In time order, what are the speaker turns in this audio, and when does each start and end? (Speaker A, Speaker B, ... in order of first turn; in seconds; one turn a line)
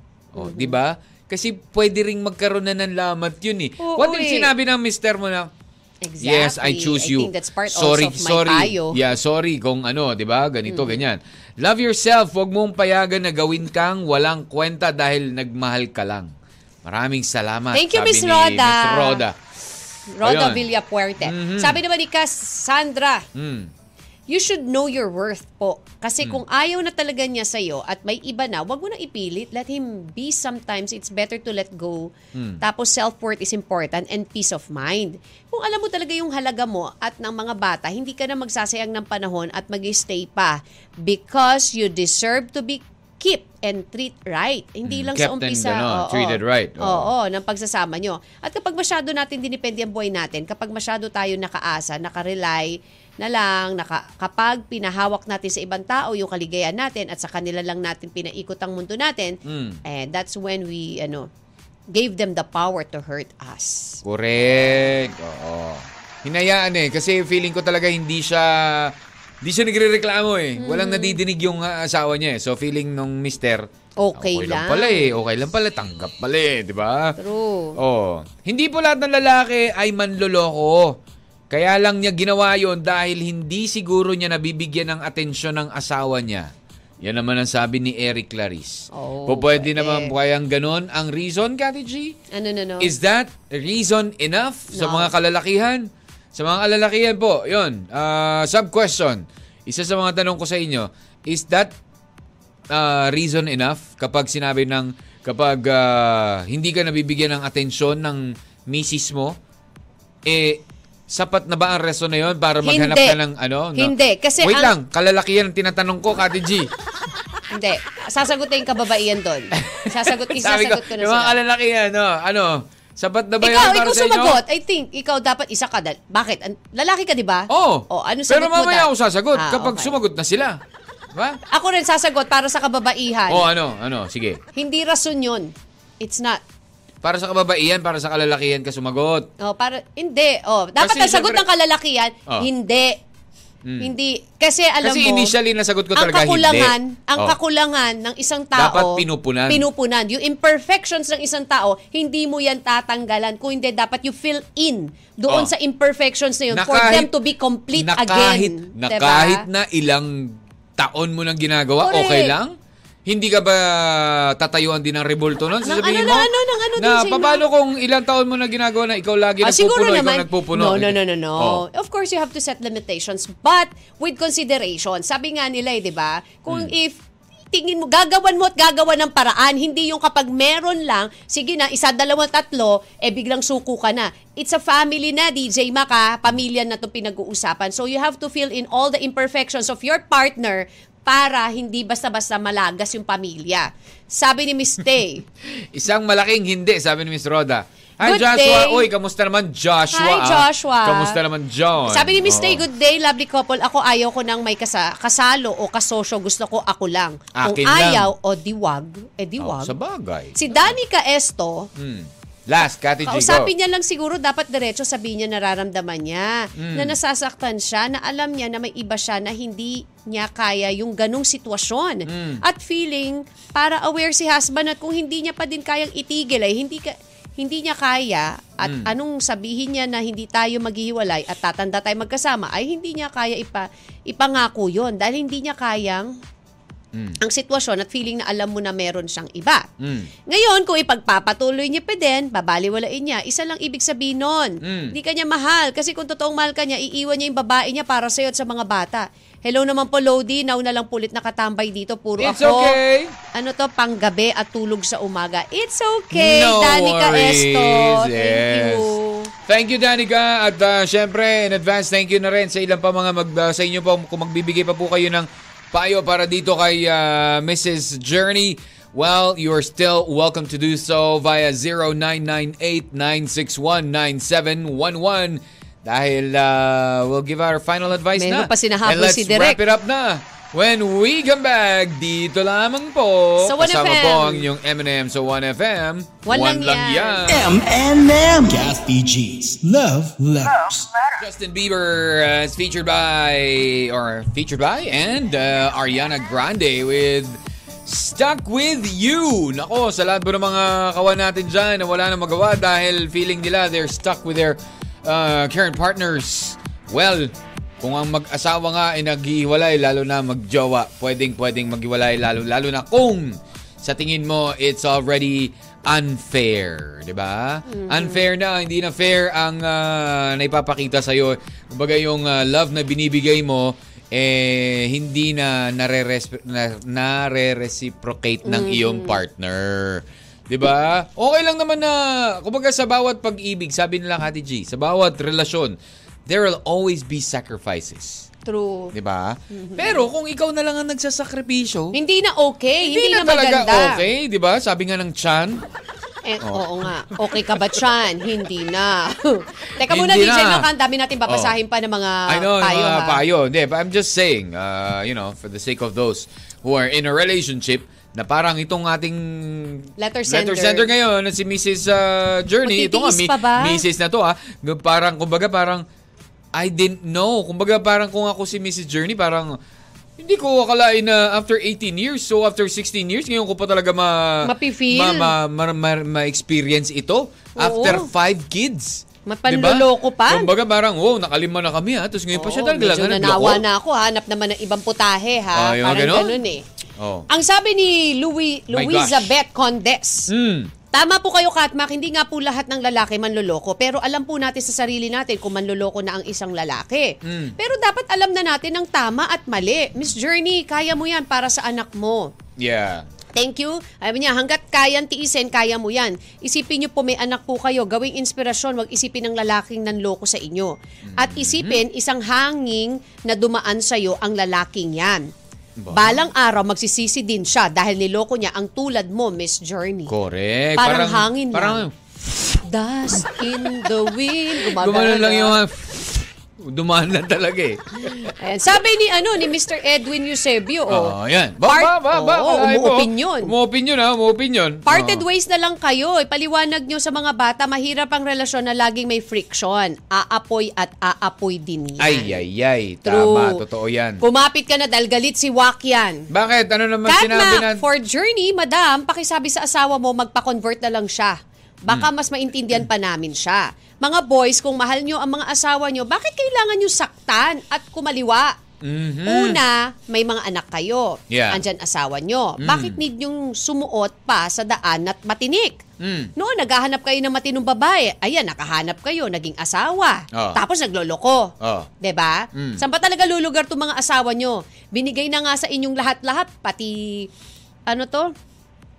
Speaker A: 0.3-5.5
Speaker B: 0.4-0.8
Speaker B: 3.8-4.5
Speaker B: 6.0-9.0
Speaker A: 6.2-16.3
Speaker B: 10.7-11.0
Speaker A: 16.8-19.4
Speaker B: 17.7-19.2
Speaker B: 20.1-23.3
Speaker A: 20.2-20.6
Speaker A: 21.2-21.8
Speaker A: 23.4-23.7
Speaker B: 24.3-61.3
Speaker A: 32.3-32.6
Speaker A: 44.9-47.1
Speaker A: 59.5-59.8
Speaker B: 61.9-64.0
Speaker A: 64.0-77.2
Speaker B: 70.6-71.2
Speaker B: 74.0-75.1
Speaker B: 77.2-77.8
Speaker A: 77.8-81.0
Speaker A: 81.5-92.2
Speaker B: 88.9-90.1
Speaker B: 92.3-92.9
Speaker A: 92.8-101.7
Speaker B: 94.7-95.1
Speaker A: 102.7-109.4
Speaker A: 110.3-116.7
Speaker B: 112.6-113.2
Speaker B: 113.8-114.8
Speaker B: 117.5-121.4
Speaker A: 119.6-124.4
Speaker B: 123.4-130.0
Speaker A: 127.5-130.6
Speaker A: 131.1-131.4
Speaker B: 131.5-133.5
Speaker A: 133.3-134.4
Speaker B: 134.6-136.4
Speaker A: 137.0-139.3
Speaker B: 139.4-143.0
Speaker A: 140.8-141.4
Speaker A: 143.6-143.9
Speaker B: 143.8-145.3
Speaker A: 144.8-147.3
Speaker B: 145.9-159.4
Speaker A: 148.6-149.7
Speaker A: 156.5-157.2
Speaker A: 157.7-162.6
Speaker B: 161.8-162.4
Speaker A: 163.1-171.6
Speaker B: 165.6-167.5
Speaker B: 169.4-195.3
Speaker A: 176.5-176.7
Speaker A: 195.5-202.6
Speaker B: 198.0-198.9
Speaker B: 199.9-201.2
Speaker B: 201.8-209.7
Speaker A: 207.3-208.1
Speaker A: 209.4-210.8
Speaker B: 210.3-211.7
Speaker A: 211.8-213.5
Speaker B: 213.0-236.2
Speaker A: 216.6-217.0
Speaker A: 222.1-222.4
Speaker A: 228.6-228.9
Speaker A: 236.9-237.2
Speaker B: 237.2-239.7
Speaker A: 239.8-240.1
Speaker B: 240.3-252.8
Speaker A: 244.6-244.9
Speaker A: 252.2-253.2
Speaker B: 253.3-259.3
Speaker A: 256.1-258.9
Speaker A: 259.5-287.5
Speaker B: 278.2-279.6
Speaker B: 283.4-284.5
Speaker B: 286.2-287.3
Speaker C: 287.3-291.1
Speaker A: 291.2-338.3
Speaker B: 317.7-318.2
Speaker B: 328.4-329.2
Speaker B: 338.5-338.9
Speaker A: 338.9-341.9
Speaker B: 339.5-340.1
Speaker B: 341.9-344.1
Speaker A: 342.8-345.6
Speaker B: 346.2-353.2
Speaker A: 346.4-347.8
Speaker A: 349.8-350.7
Speaker A: 351.3-351.6
Speaker A: 352.3-365.8
Speaker B: 360.0-360.9
Speaker B: 362.6-363.8
Speaker A: 366.6-369.5
Speaker A: 370.2-383.6
Speaker B: 374.4-375.3
Speaker B: 377.6-378.1
Speaker B: 379.3-380.5
Speaker B: 382.3-386.6
Speaker A: 385.6-386.4
Speaker A: 387.0-387.3
Speaker B: 387.3-390.3
Speaker A: 388.7-389.3
Speaker A: 390.3-390.7
Speaker B: 390.9-402.3
Speaker A: 397.2-397.6
Speaker A: 402.6-403.1
Speaker B: 403.3-415.3
Speaker A: 411.0-411.8
Speaker A: 415.8-416.2
Speaker B: 415.9-420.1
Speaker A: 420.1-422.0
Speaker B: 420.8-421.8
Speaker B: 422.6-425.6
Speaker A: 424.6-428.3
Speaker B: 428.1-433.5
Speaker A: 430.9-435.2
Speaker B: 434.9-442.4
Speaker A: 442.0-444.2
Speaker B: 443.1-443.6
Speaker B: 444.2-446.2
Speaker A: 446.3-447.8
Speaker B: 447.1-458.6
Speaker A: 458.8-459.6
Speaker B: 459.3-465.8
Speaker A: 461.3-461.6
Speaker A: 462.6-463.0
Speaker A: 466.0-466.3
Speaker B: 466.4-477.3
Speaker A: 470.3-470.6
Speaker A: 471.6-471.9
Speaker A: 472.6-472.8
Speaker B: 477.9-478.3